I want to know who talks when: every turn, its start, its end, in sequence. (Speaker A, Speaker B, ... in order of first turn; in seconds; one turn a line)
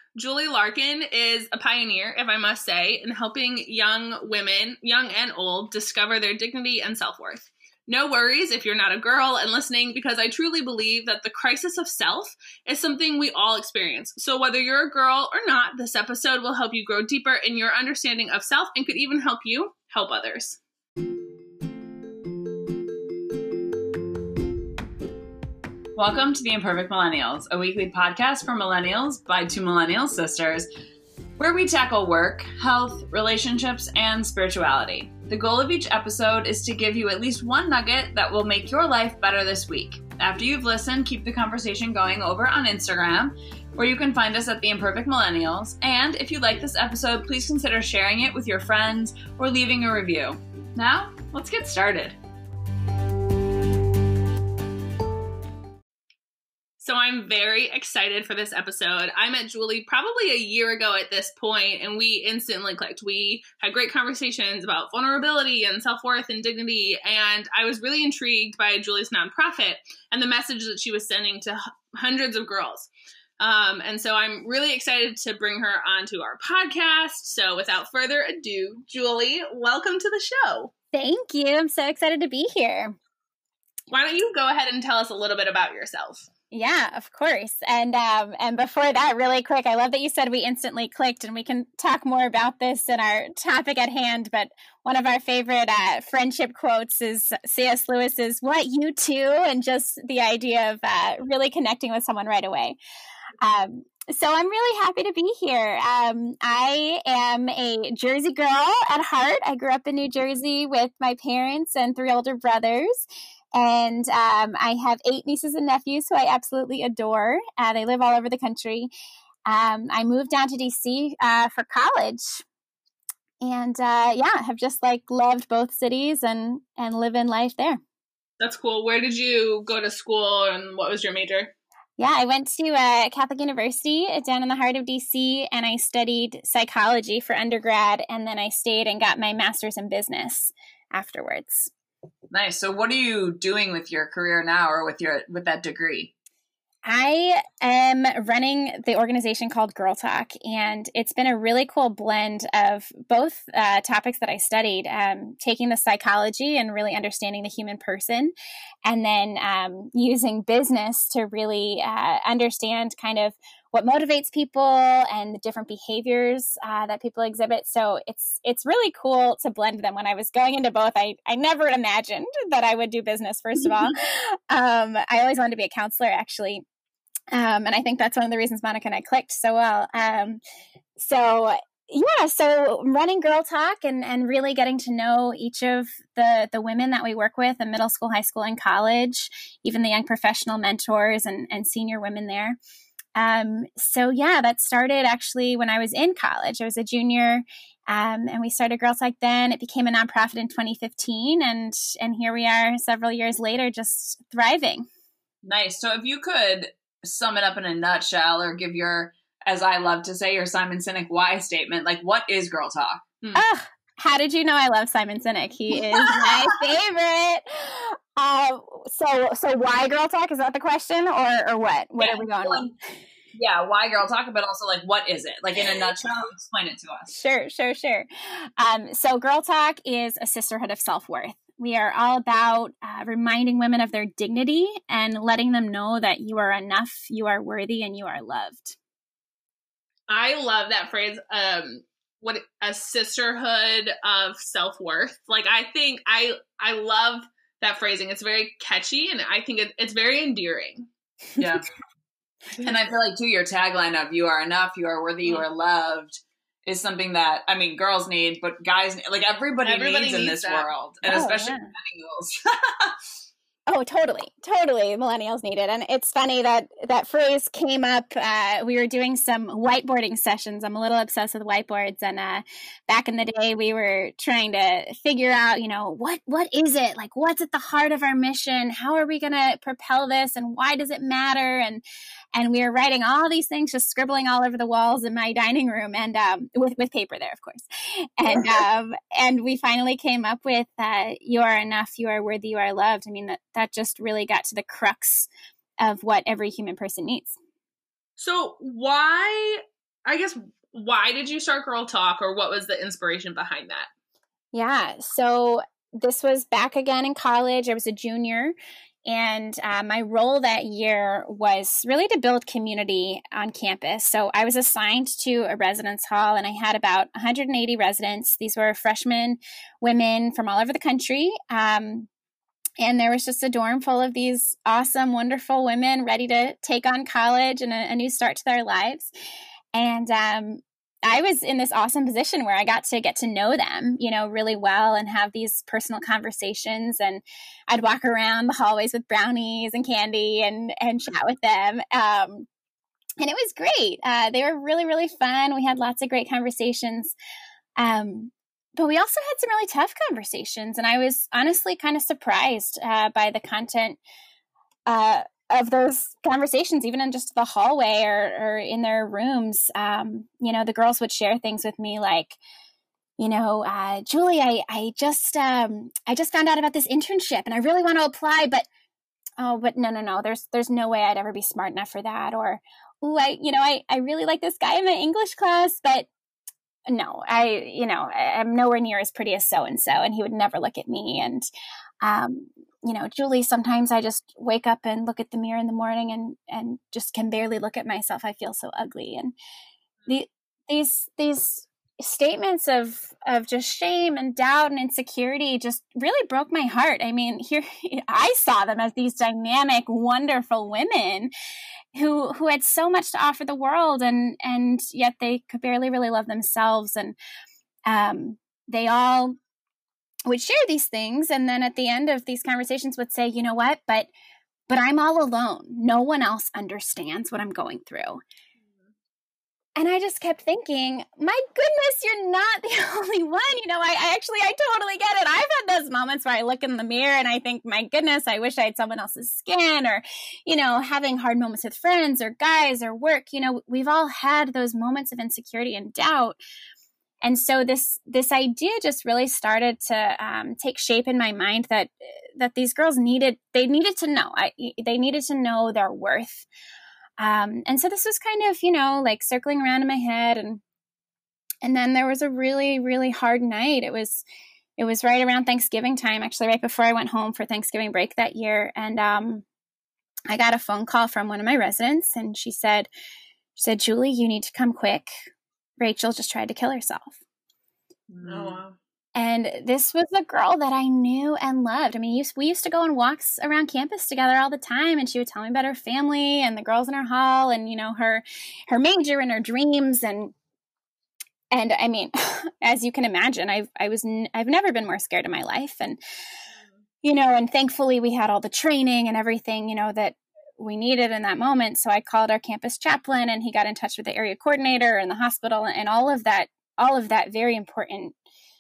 Speaker A: 0.1-20.6
Speaker B: 26.0-30.7
Speaker B: 31.4-52.2
Speaker A: 56.8-80.7
Speaker C: 80.9-83.0
Speaker A: 83.9-86.3
Speaker C: 86.5-102.8
Speaker C: 103.4-113.0
Speaker C: 113.5-118.9
Speaker C: 119.5-122.4
Speaker C: 123.4-127.8
Speaker A: 128.4-131.5
Speaker C: 132.0-141.7
Speaker B: 142.3-146.1
Speaker C: 146.8-158.3
Speaker C: 158.8-176.7
Speaker C: 177.3-180.4
Speaker C: 181.0-192.6
Speaker C: 193.2-204.9
Speaker B: 205.4-213.4
Speaker C: 213.3-222.7
Speaker B: 216.0-216.5
Speaker B: 222.0-222.7
Speaker B: 223.3-227.1
Speaker C: 227.1-238.8
Speaker A: 240.1-250.9
Speaker B: 251.4-251.7
Speaker B: 252.6-262.9
Speaker A: 259.6-260.7
Speaker C: 261.1-261.7
Speaker C: 263.7-281.8
Speaker C: 282.3-295.3
Speaker C: 295.8-297.4
Speaker A: 298.2-303.9
Speaker C: 304.5-308.6
Speaker C: 309.1-322.1
Speaker C: 322.8-329.1
Speaker C: 329.7-342.5
Speaker C: 343.2-347.1
Speaker C: 347.8-354.0
Speaker C: 354.9-362.4
Speaker C: 363.2-368.7
Speaker C: 369.4-376.1
Speaker C: 376.9-381.5
Speaker C: 382.0-389.4
Speaker C: 390.1-401.3
Speaker C: 401.9-407.2
Speaker C: 407.9-409.4
Speaker C: 410.3-414.1
Speaker C: 414.7-418.2
Speaker C: 419.8-436.4
Speaker C: 437.2-446.5
Speaker C: 447.2-450.6
Speaker C: 451.6-454.2
Speaker C: 454.8-459.4
Speaker C: 460.3-462.9
Speaker C: 463.6-465.1
Speaker C: 465.8-467.2
Speaker B: 468.1-468.6
Speaker A: 468.2-468.8
Speaker C: 469.1-480.3
Speaker C: 481.5-486.0
Speaker C: 487.0-498.1